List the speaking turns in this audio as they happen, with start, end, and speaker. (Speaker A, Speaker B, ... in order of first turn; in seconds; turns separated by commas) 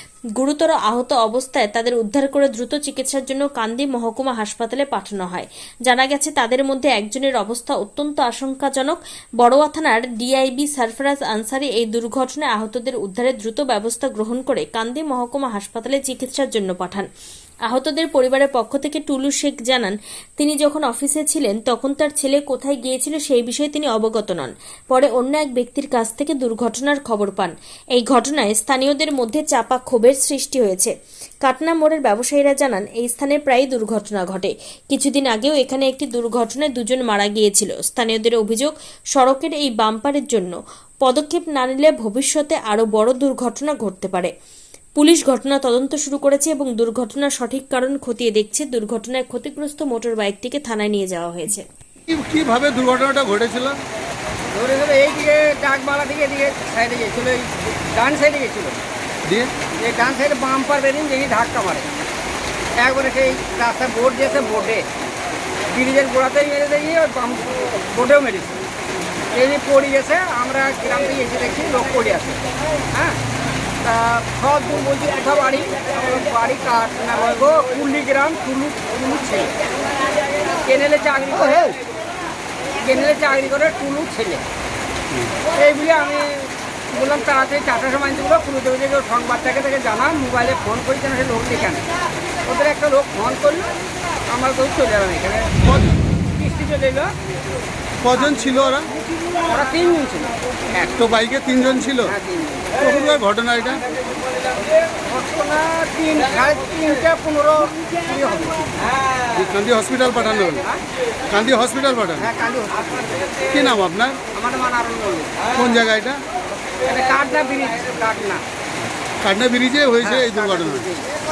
Speaker A: 0.4-17.1, Speaker A: 17.7-30.9, Speaker A: 31.4-44.3, Speaker A: 45.0-51.6, Speaker B: 52.1-53.8, Speaker C: 54.5-58.8, Speaker B: 59.2-59.5, Speaker C: 59.8-61.9, Speaker C: 62.8-64.8, Speaker C: 65.7-68.6, Speaker C: 69.3-72.4, Speaker C: 72.9-73.2, Speaker C: 73.8-79.5, Speaker C: 80.6-81.8, Speaker C: 82.8-84.4, Speaker C: 85.5-91.8, Speaker C: 92.5-93.7, Speaker C: 94.3-97.1, Speaker B: 98.0-98.9, Speaker C: 99.4-101.1, Speaker B: 101.0-102.1, Speaker C: 102.0-102.7, Speaker B: 102.8-103.8, Speaker C: 105.0-108.9, Speaker B: 109.3-110.6, Speaker B: 111.3-112.3, Speaker C: 112.2-113.2, Speaker B: 113.5-114.2, Speaker C: 114.3-115.5, Speaker B: 115.5-116.2, Speaker C: 116.8-118.4, Speaker B: 119.2-120.8, Speaker C: 120.0-121.0